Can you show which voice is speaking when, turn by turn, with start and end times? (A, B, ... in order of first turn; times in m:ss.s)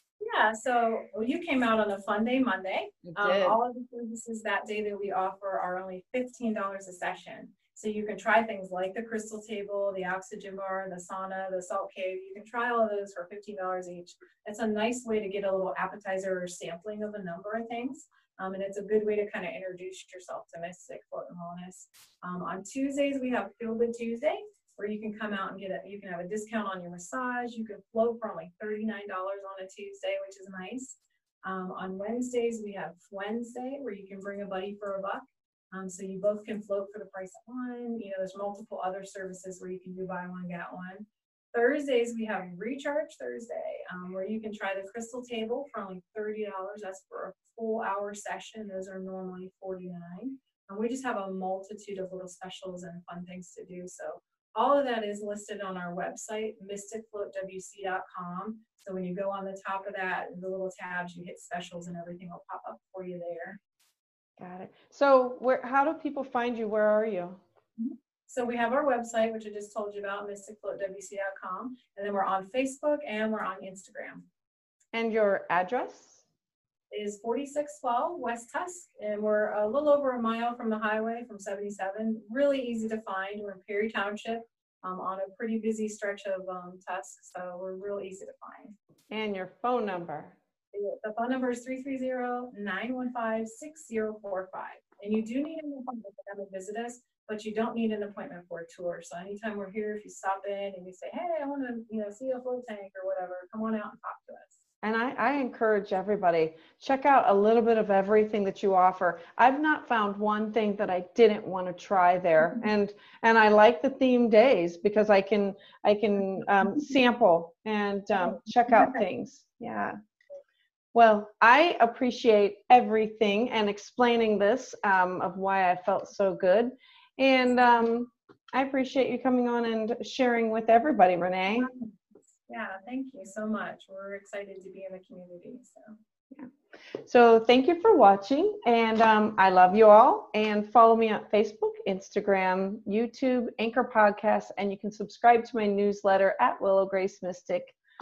0:00.2-1:03.6 A
0:03.0-0:03.6 B
1:04.4-1:07.4 B
1:07.8-1:14.2 A
1:14.9-1:16.2 B
1:16.9-1:28.8 A
1:29.1-1:30.4 B
1:30.7-1:44.6 A
1:44.8-2:00.0 B
1:58.7-1:59.0 A
2:00.9-2:11.7 B
2:11.5-2:16.0 A
2:17.0-2:27.8 B